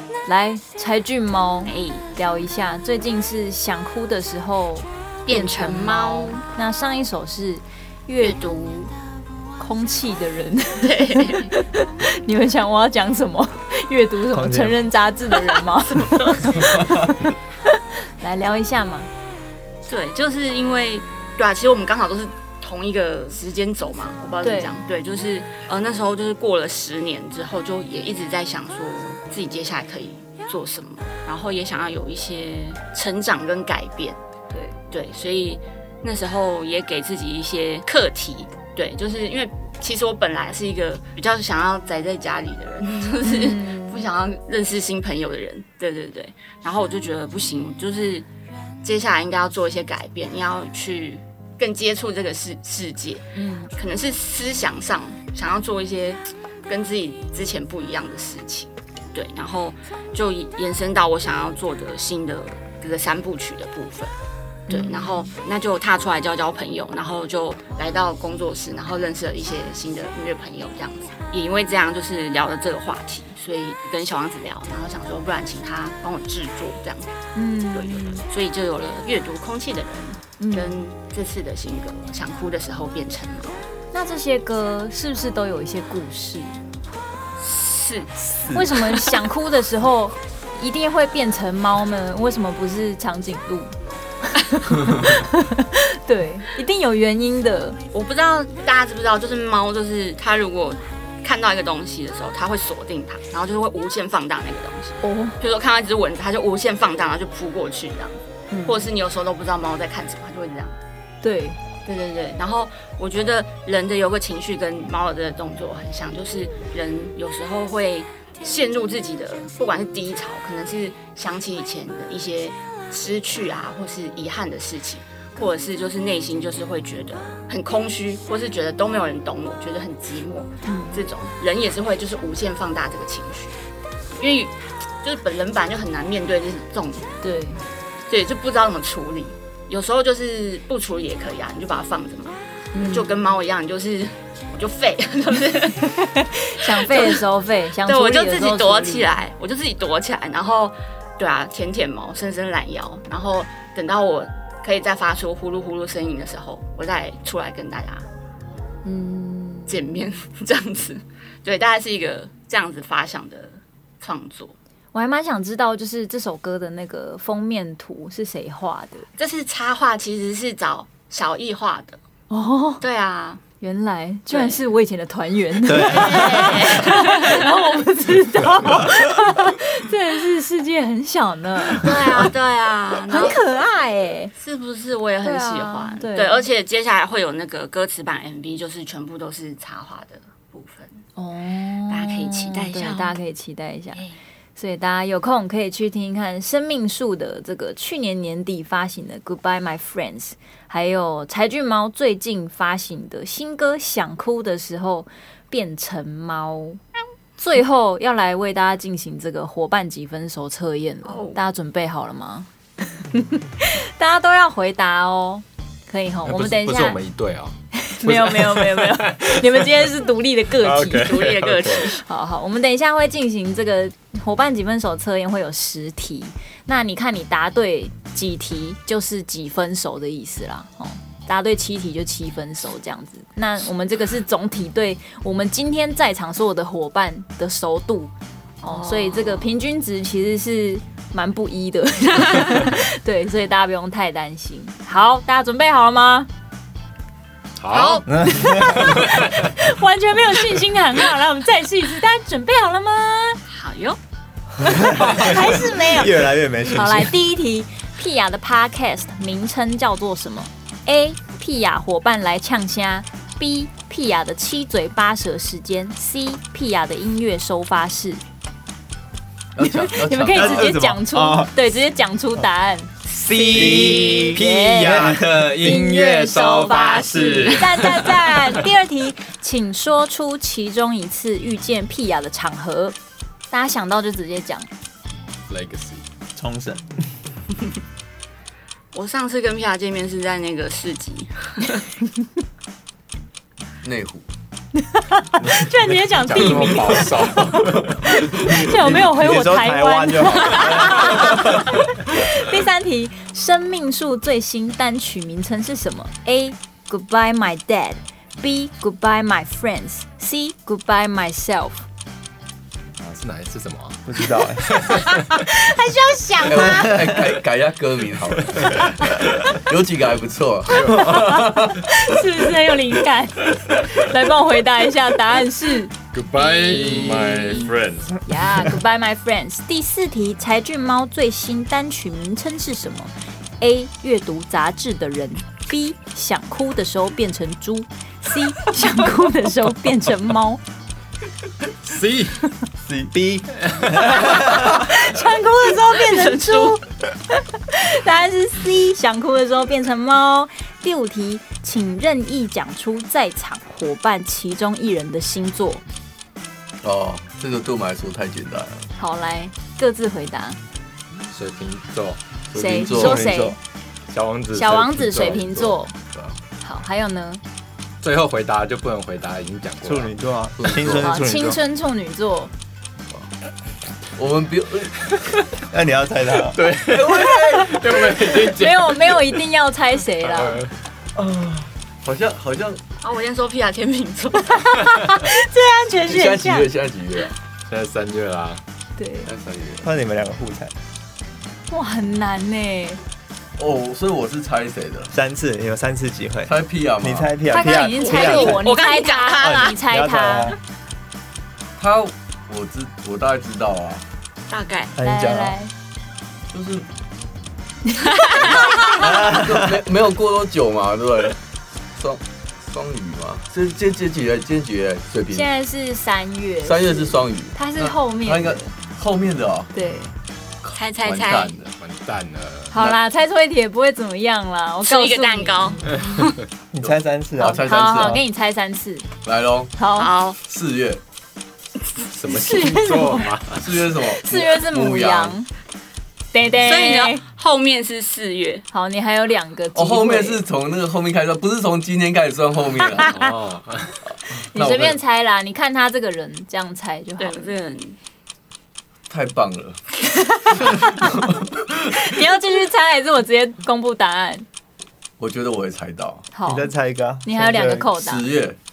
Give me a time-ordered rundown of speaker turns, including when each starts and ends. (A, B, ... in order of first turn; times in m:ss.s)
0:00.2-0:08.4 A
0:01.6-0:02.0 B
0:05.2-0:06.4 B
0:08.2-0:08.9 B
0:09.6-0:17.3 A
0:10.8-0:11.5 B
0:14.3-0:14.9 C
0:15.9-0:16.7 B
0:18.2-0:19.1 A
0:19.8-0:34.2 B
0:24.4-0:24.7 A
0:34.9-0:48.2 B
0:43.2-0:44.0 A
0:48.8-1:04.1 B
0:53.3-0:53.7 A
1:04.7-1:05.3 A
1:04.7-1:17.2 B
1:17.3-1:18.2 A
1:17.7-1:23.6 B
1:20.4-1:20.7 A
1:23.9-1:26.6 A
1:27.4-1:28.3 B
1:28.5-1:33.7 A
1:34.3-1:37.8 A
1:37.9-1:50.8 B
1:45.0-1:45.4 A
1:48.5-1:48.9 A
1:51.2-1:51.6 A
1:51.8-2:13.6 B
2:10.6-2:11.0 A
2:14.2-2:17.1 B
2:17.2-2:17.6 A
2:18.1-2:26.0 B
2:22.7-2:23.1 A
2:26.0-2:29.1 A
2:26.7-2:27.2 B
2:27.8-2:38.0 B
2:38.8-2:39.7 A
2:39.7-2:44.5 B
2:44.9-2:49.0 A
2:49.2-2:52.0 B
2:52.3-2:52.8 A
2:52.8-2:53.4 B
2:53.6-3:02.2 A
2:54.3-2:54.6 B
2:55.6-2:56.8 C
2:55.8-2:57.5 B
3:01.8-3:03.4 B
3:03.1-3:04.3 A
3:04.4-3:11.0 B
3:05.2-3:06.5 A
3:11.2-3:14.0 A
3:11.9-3:13.2 B
3:14.6-3:26.8 A
3:27.4-3:37.0 A
3:31.0-3:31.4 B
3:36.2-3:40.0 D
3:37.8-3:41.1 A
3:40.6-3:41.9 D
3:41.0-3:42.0 B
3:42.0-4:06.3 A
3:58.6-3:59.5 B
4:07.6-4:08.0 D
4:07.7-4:08.0 B
4:08.1-4:08.9 C
4:08.3-4:13.4 A
4:08.6-4:09.5 D
4:13.5-4:14.0 B
4:14.6-4:17.1 C
4:14.7-4:28.2 A
4:15.1-4:15.4 D
4:29.6-4:30.7 E
4:29.6-4:32.9 A
4:30.3-4:31.5 C
4:33.1-4:35.8 C
4:33.2-4:38.6 D
4:33.5-4:43.0 A
4:36.8-4:37.6 B
4:36.9-4:37.5 C
4:43.5-4:44.7 A
4:45.5-4:46.0 D
4:46.3-4:46.9 C
4:48.9-4:51.8 B
4:53.8-4:54.2 E
4:54.8-4:57.4 A
4:55.4-4:58.5 D
4:57.6-4:58.7 E
4:58.5-5:11.8 A
4:58.9-5:01.5 C
5:13.0-5:15.5 D
5:14.0-5:14.7 C
5:15.2-5:16.9 A
5:16.4-5:21.8 E
5:20.7-5:21.3 D
5:21.0-5:21.2 A
5:21.8-5:27.7 A
5:26.1-5:28.2 D
5:28.2-5:40.6 A
5:41.8-5:42.5 D
5:42.9-5:44.5 C
5:43.5-5:44.5 D
5:44.3-5:55.8 A
5:46.0-5:46.8 B
5:56.8-5:58.9 E
5:59.0-6:00.6 A
6:01.3-6:02.2 D
6:02.5-6:03.5 E
6:02.5-6:03.6 A
6:02.9-6:03.6 C
6:04.1-6:05.8 D
6:04.5-6:05.9 A
6:06.6-6:07.4 A
6:08.0-6:10.1 D
6:09.8-6:11.6 C
6:10.6-6:11.1 E
6:11.0-6:12.5 A
6:14.1-6:15.0 E
6:15.7-6:16.6 C
6:16.5-6:19.4 D
6:16.8-6:17.9 E
6:18.5-6:20.6 A
6:20.2-6:20.7 D
6:21.2-6:22.8 E
6:23.0-6:24.8 B
6:24.7-6:26.7 A
6:26.0-6:27.3 E
6:27.7-6:28.6 D
6:29.0-6:29.3 A
6:29.2-6:29.9 E
6:29.8-6:30.7 C
6:31.7-6:33.0 A
6:33.6-6:35.1 E
6:35.1-6:38.8 C
6:36.4-6:37.3 E
6:37.5-6:40.5 A
6:38.0-6:39.7 B
6:39.4-6:40.6 C
6:41.8-6:44.0 E
6:44.5-6:44.9 B
6:44.9-6:45.6 C
6:45.0-6:45.7 A
6:46.5-6:46.8 E
6:47.9-6:48.9 A
6:48.1-6:48.8 B
6:48.3-6:51.4 E
6:49.0-6:49.8 C
6:52.0-6:55.5 E
6:55.3-6:58.7 A
6:56.6-6:59.7 E
6:59.7-7:00.1 A
7:00.6-7:01.7 E
7:00.8-7:01.5 B
7:01.6-7:02.8 D
7:02.7-7:05.8 A
7:04.8-7:06.4 B
7:06.0-7:06.3 D
7:06.7-7:08.2 C
7:07.4-7:08.2 E
7:07.4-7:09.1 A
7:09.2-7:09.7 E
7:09.8-7:10.1 A
7:10.0-7:10.4 B
7:10.4-7:11.0 E
7:12.1-7:13.6 D
7:12.3-7:13.3 A
7:13.5-7:15.4 E
7:14.0-7:15.5 A
7:16.3-7:17.2 A
7:16.6-7:18.6 B
7:18.7-7:20.4 A
7:19.7-7:23.3 E
7:23.0-7:24.0 D
7:24.3-7:25.0 E
7:24.5-7:27.5 A
7:27.2-7:28.0 B
7:29.1-7:29.8 E
7:30.4-7:31.0 A
7:30.4-7:32.0 E
7:31.9-7:34.4 A
7:35.2-7:36.3 E
7:36.3-7:36.7 A
7:36.4-7:37.9 C
7:37.2-7:38.3 A
7:37.9-7:38.6 E